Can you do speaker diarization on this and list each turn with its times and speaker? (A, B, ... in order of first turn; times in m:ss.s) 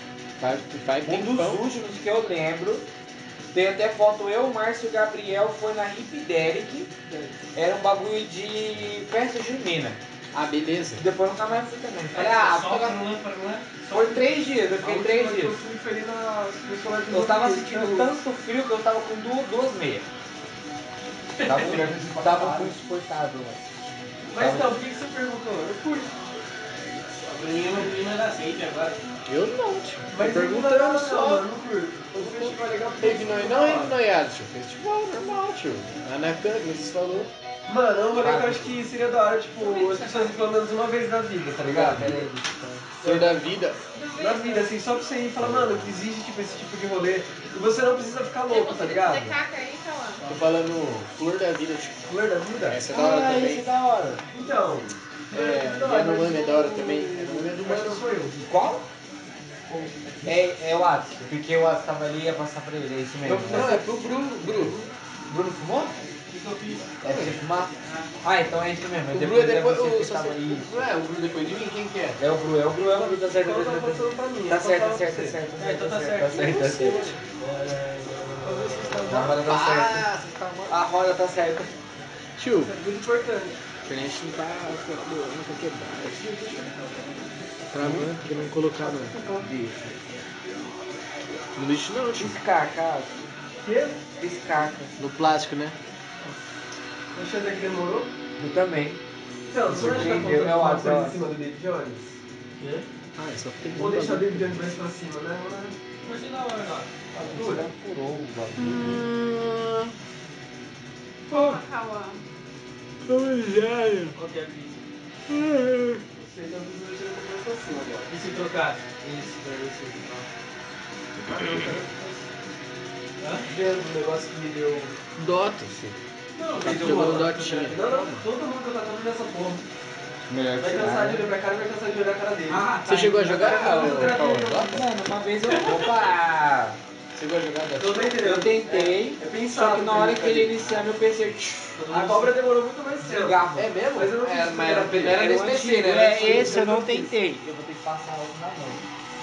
0:00.4-0:01.6 A
0:01.0-0:02.9 B
0:03.5-0:06.9 B
0:07.6-0:10.0 B
0:10.3-0:11.1 A
0:11.0-0:13.0 B
0:12.1-0:13.9 C
0:13.8-0:15.6 B
0:14.8-0:18.1 D
0:17.1-0:20.1 B
0:21.4-0:21.9 C
0:21.4-0:23.6 B
0:21.6-0:22.7 D
0:24.3-0:26.2 D
0:24.4-0:24.7 B
0:27.2-0:29.0 C
0:29.3-0:31.5 A
0:30.1-0:34.0 D
0:32.1-0:37.3 A
0:37.7-0:42.3 D
0:38.2-0:38.7 B
0:39.6-0:40.4 E
0:41.6-0:42.8 B
0:43.0-0:43.8 A
0:43.0-0:43.4 D
0:43.9-0:44.7 E
0:44.2-0:49.4 D
0:48.5-0:50.3 E
0:50.2-0:52.1 A
0:52.1-0:52.8 D
0:52.7-0:53.7 A
0:52.9-0:54.2 B
0:54.3-0:58.5 D
0:55.3-0:58.0 A
0:58.4-0:58.9 B
1:00.2-1:03.8 B
1:03.2-1:05.4 A
1:03.5-1:03.9 D
1:04.5-1:04.8 D
1:05.3-1:05.9 B
1:06.3-1:07.0 C
1:07.0-1:10.9 B
1:07.1-1:07.4 A
1:09.1-1:12.2 A
1:12.2-1:17.1 B
1:12.8-1:15.4 D
1:15.6-1:19.0 C
1:16.4-1:17.2 A
1:18.4-1:19.4 D
1:19.1-1:20.1 B
1:19.1-1:20.8 A
1:20.7-1:21.7 B
1:22.4-1:22.8 A
1:22.6-1:23.6 D
1:23.8-1:26.6 A
1:26.2-1:27.1 D
1:27.7-1:29.8 A
1:27.8-1:28.1 B
1:28.8-1:29.5 D
1:31.6-1:32.4 A
1:32.2-1:33.1 B
1:33.6-1:34.0 D
1:34.2-1:35.0 B
1:35.0-1:35.8 A
1:37.2-1:38.1 D
1:38.4-1:39.0 B
1:39.5-1:42.1 D
1:39.7-1:41.2 B
1:42.6-1:42.8 C
1:43.2-1:44.7 A
1:43.8-1:45.8 D
1:46.0-1:46.9 C
1:47.1-1:47.7 D
1:47.2-1:49.0 B
1:48.6-1:49.9 A
1:51.3-1:52.2 E
1:53.1-1:54.1 A
1:54.1-1:54.8 C
1:55.3-1:56.0 A
1:56.1-1:58.1 D
1:58.1-1:58.9 C
1:59.0-2:00.1 B
2:01.3-2:02.2 D
2:01.3-2:01.6 A
2:03.2-2:03.5 C
2:03.5-2:05.0 D
2:05.2-2:06.0 A
2:06.4-2:07.4 C
2:06.5-2:09.6 D
2:06.6-2:08.3 A
2:06.7-2:07.2 B
2:10.3-2:11.3 B
2:10.6-2:12.7 D
2:12.5-2:14.1 C
2:12.9-2:14.8 A
2:13.3-2:14.8 D
2:14.7-2:16.8 B
2:15.6-2:15.8 C
2:17.2-2:18.2 A
2:17.8-2:20.6 D
2:18.2-2:22.3 B
2:21.8-2:25.3 D
2:23.0-2:23.8 B
2:23.6-2:26.8 A
2:25.0-2:28.8 B
2:26.3-2:27.1 D